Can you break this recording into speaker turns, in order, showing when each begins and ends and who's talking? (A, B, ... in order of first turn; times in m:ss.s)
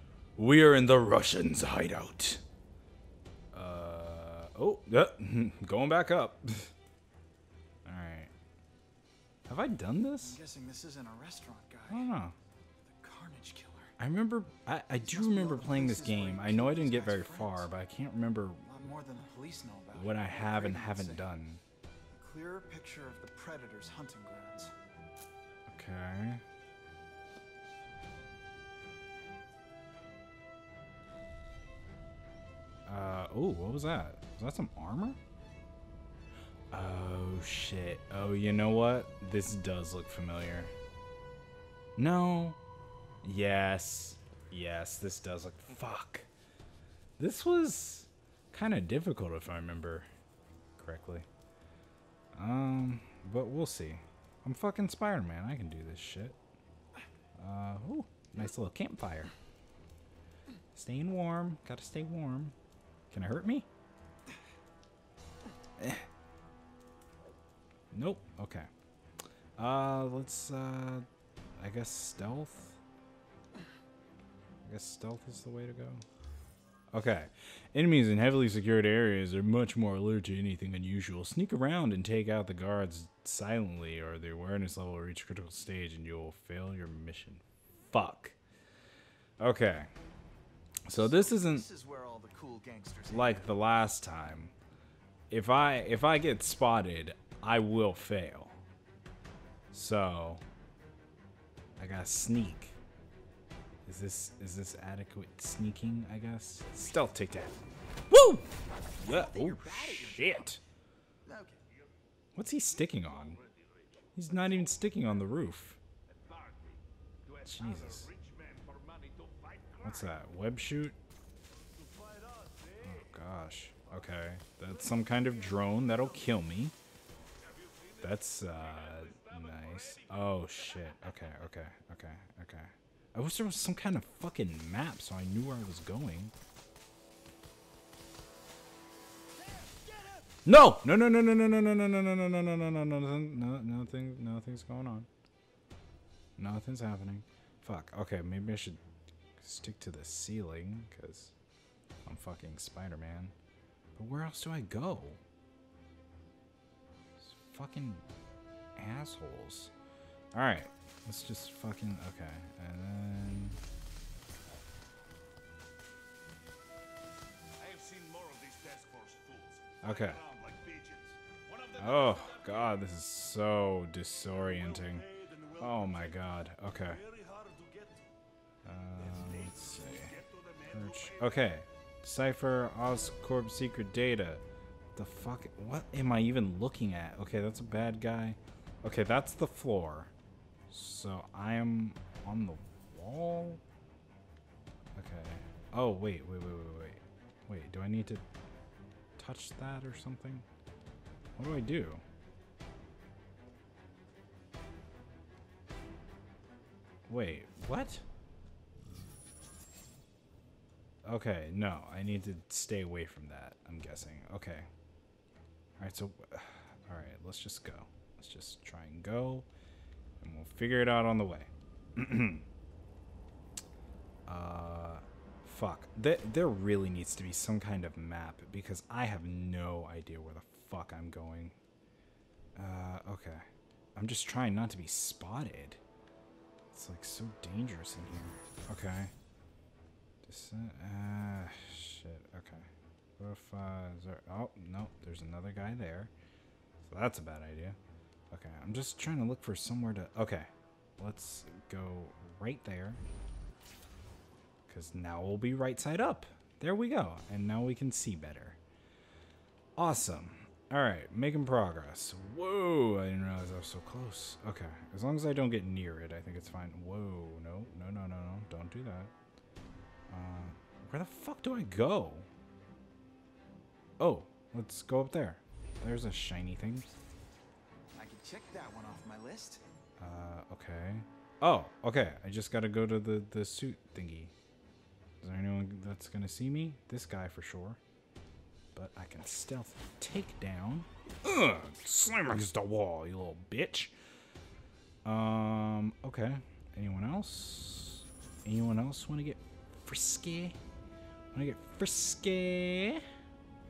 0:00.4-0:02.4 A
0:03.5-0:06.7 A
0:07.8-0:08.3 A
0:09.5-0:10.4 A
0:10.2-0:12.1 B
0:11.9-0:12.4 A
0:12.8-0:13.9 B
0:14.0-0:18.6 A
0:15.0-0:17.7 B
0:18.6-0:21.3 B
0:19.9-0:21.6 A
0:22.1-0:24.7 B
0:25.7-0:26.4 A
0:32.9-0:35.2 A
0:36.7-0:40.7 A
0:42.0-0:42.6 A
0:43.2-0:46.3 A
0:47.2-0:50.1 A
0:50.8-0:51.3 A
0:52.4-0:56.4 A
0:57.4-0:59.3 A
1:00.7-1:02.6 A
1:03.1-1:03.7 A
1:05.8-1:06.1 A
1:07.9-1:08.7 A
1:09.6-1:12.8 A
1:14.6-1:16.0 A
1:16.9-1:28.4 A
1:29.4-1:29.9 A
1:30.9-1:31.7 A
1:30.9-1:33.5 B
1:33.1-1:34.5 A
1:35.3-1:38.6 A
1:39.7-1:40.4 A
1:41.8-1:42.8 A
1:43.9-1:47.6 A
1:48.1-1:50.6 A
1:49.0-1:50.6 B
1:51.2-1:51.6 B
1:52.4-1:53.4 A
1:54.2-1:55.8 A
1:56.3-1:56.8 C
1:57.4-1:58.1 A
1:58.1-1:59.8 C
1:59.8-2:01.0 A
2:02.2-2:02.6 C
2:02.8-2:06.8 A
2:08.0-2:16.3 A
2:20.4-2:25.1 A
2:26.4-2:28.8 A
2:29.4-2:31.4 A
2:32.0-2:33.4 A
2:34.0-2:35.2 A
2:37.2-2:38.0 A
2:38.8-2:39.7 A
2:40.3-2:43.6 A
2:47.6-2:51.7 C
2:49.8-2:50.2 A
2:51.8-2:57.0 A
2:57.2-2:58.0 C
2:58.6-3:04.4 A
3:00.3-3:00.6 C
3:05.0-3:10.1 A
3:10.7-3:13.6 A
3:15.0-3:18.2 A
3:19.2-3:20.5 A
3:21.4-3:22.0 A
3:27.1-3:28.0 A
3:31.0-3:34.7 A
3:35.8-3:39.5 A
3:40.2-3:42.5 A
3:44.3-3:51.6 A
3:52.6-3:55.8 A
3:56.7-3:59.1 A
4:00.2-4:06.1 A
4:06.8-4:07.8 A
4:08.3-4:13.0 A
4:14.7-4:18.6 A
4:19.8-4:29.1 A
4:30.1-4:32.3 A
4:34.0-4:36.9 A
4:38.0-4:39.6 B
4:40.0-4:44.3 A
4:45.2-4:47.8 A
4:48.8-4:53.9 A
4:55.0-5:00.6 A
5:01.3-5:03.1 A